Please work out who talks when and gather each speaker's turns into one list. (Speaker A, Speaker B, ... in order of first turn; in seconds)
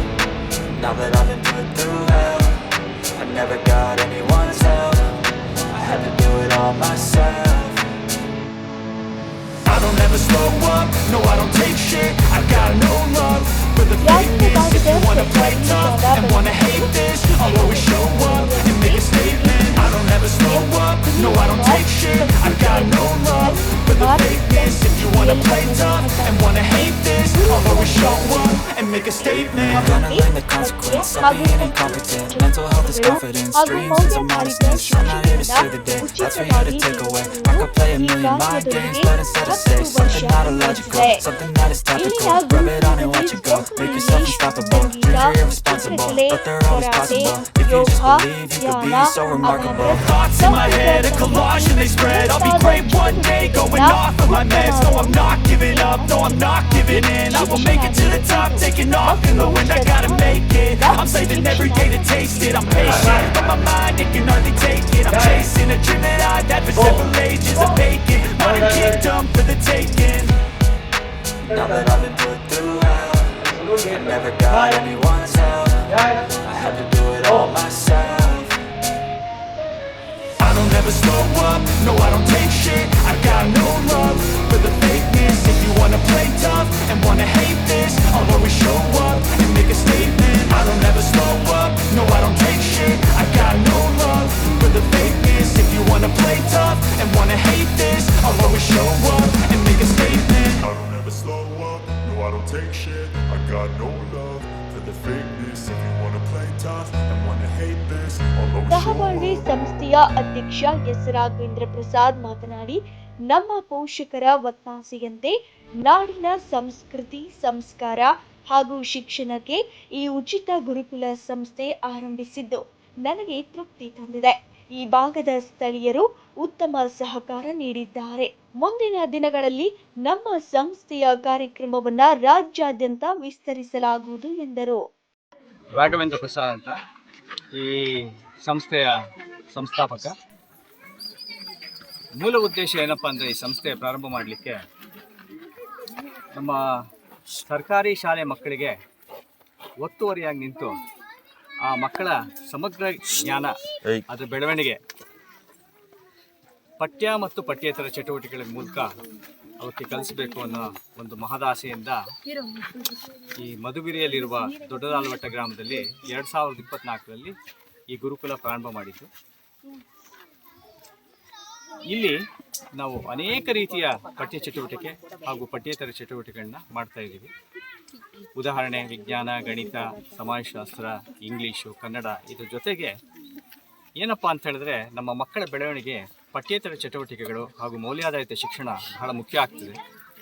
Speaker A: 0.7-7.8, 9.6-20.6, 21.1-70.3, 71.5-78.6, 80.4-100.6
Speaker B: 14.0-41.2, 41.9-63.3, 108.7-134.8
Speaker C: 98.2-99.0, 99.6-109.5
Speaker D: 135.7-136.8, 137.5-138.9, 139.5-140.1, 142.2-144.6, 147.4-148.8, 149.8-150.8, 151.7-153.5, 154.1-154.8, 156.8-158.9, 159.6-162.0, 163.4-167.3, 167.9-169.1, 171.9-172.1, 172.8-177.3, 178.4-182.9, 184.0-189.8